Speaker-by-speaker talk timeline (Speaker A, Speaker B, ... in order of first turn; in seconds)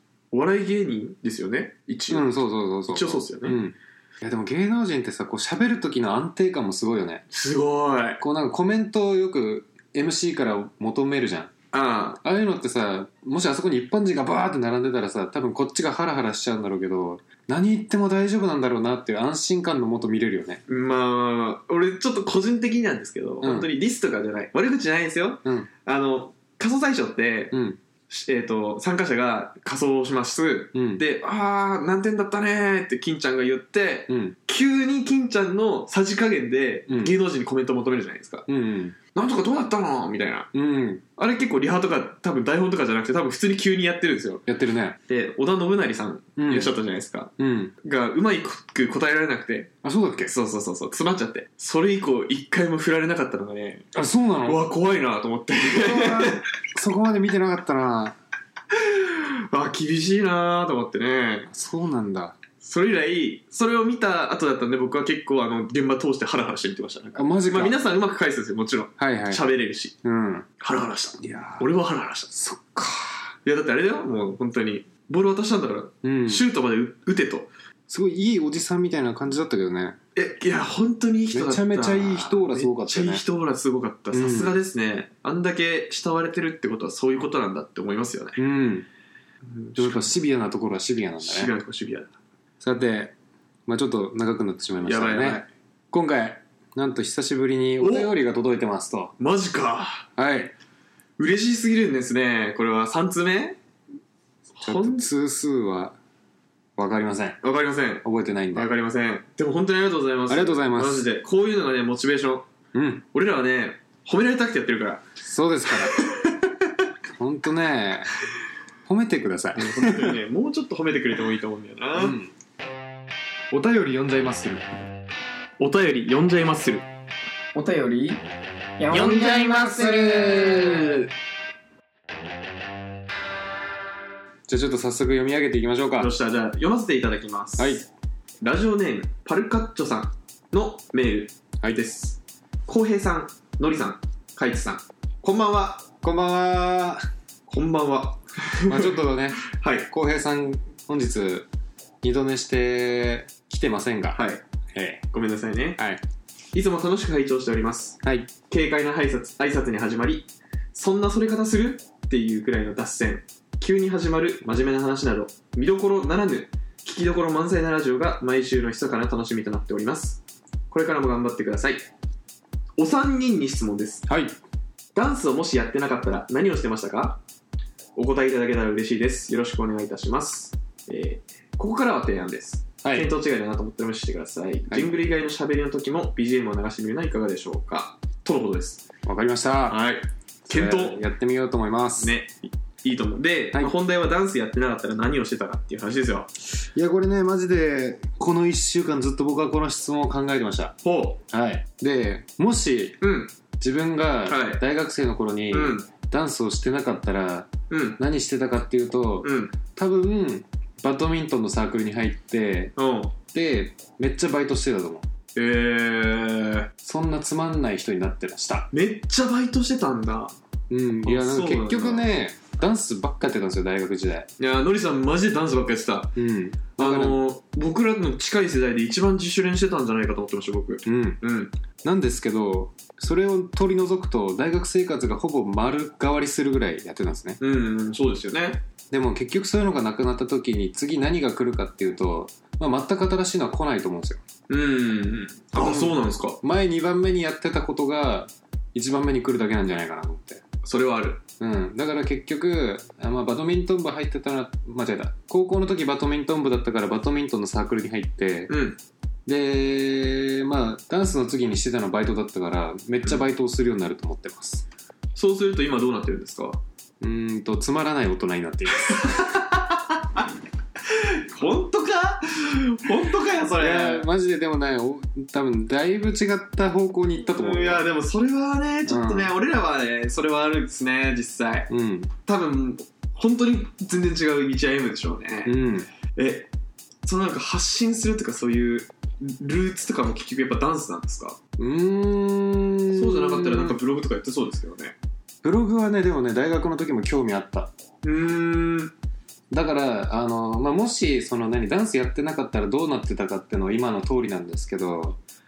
Speaker A: 0.3-2.3, 2.9-3.6, 7.3-8.2, 11.7-12.2, 20.7-27.6, 28.1-38.5, 39.1-40.5, 41.2-44.4, 45.1-49.7, 50.3-53.9, 54.4-56.4, 58.7-61.5, 62.6-70.0, 70.6-72.3, 73.5-77.5, 80.2-88.4, 89.5-90.1, 91.2-92.1, 94.8-95.5, 97.8-98.1, 99.2-100.1, 101.2-103.6, 104.6-105.1, 107.4-112.5, 113.1-115.0, 115.8-116.5, 119.6-122.2, 125.6-126.8, 136.0-137.8, 138.4-145.9, 147.5-149.9, 154.1-154.4, 155.1-155.8, 156.5-171.9, 172.8-174.1, 174.9-177.2, 178.0-188.8, 189.7-191.0, 192.0-196.3, 200.8-201.2, 203.0-203.3, 204.3-204.6, 205.5-205.9, 207.7-208.0, 209.2-209.6, 212.8-213.1, 215.3-216.7, 218.7-220.3, 221.0-222.1, 224.4-226.1, 226.8-231.5, 237.4-238.6, 244.5-246.4, 250.6-251.2, 258.5-258.8, 265.2-266.6, 268.9-270.2, 270.9-274.1, 277.3-281.7, 282.3-285.6, 286.1-286.5, 287.1-291.4, 292.9-295.0, 298.0-298.9
Speaker B: 2.1-7.2, 8.2-11.5, 12.2-20.6, 23.4-23.7, 25.4-25.7, 27.5-27.8, 30.7-31.0, 34.1-34.4, 36.9-37.1, 38.5-39.0, 40.5-41.0, 44.5-45.0, 46.4-46.8, 47.4-47.7, 49.8-50.3, 53.9-54.6, 55.7-58.2, 61.5-62.4, 67.2-67.8, 69.0-69.5, 70.0-70.5, 71.2-71.7, 72.3-73.3, 76.0-76.5, 77.9-80.0, 81.3-83.2, 84.1-84.6, 88.4-88.9, 89.8-91.5, 92.6-93.1, 93.7-99.1, 100.2-100.5, 104.6-106.0, 106.8-107.4, 108.0-108.7, 110.3-111.1, 112.7-113.0, 115.2-116.0, 117.2-118.1, 118.9-120.2, 122.0-122.3, 123.5-124.7, 128.9-131.0, 134.5-136.1, 137.6-137.8, 146.0-147.1, 148.7-151.5, 152.0-155.0, 158.0-158.3, 174.1-174.3, 182.8-183.1, 184.7-185.0, 189.0-189.8, 190.5-192.1, 196.8-200.8, 201.3-203.0, 203.6-212.7, 213.3-215.1, 216.8-218.7, 220.7-224.3, 226.2-227.2, 230.8-231.2, 231.8-237.4, 238.9-244.2, 245.5-250.4, 251.4-258.5, 259.3-264.7, 267.0-269.3, 273.6-277.9, 278.9-279.3, 281.7-282.1, 285.4-285.9, 291.6-293.8, 295.4-297.7, 299.5-305.2
Speaker C: 127.5-128.2, 128.8-131.0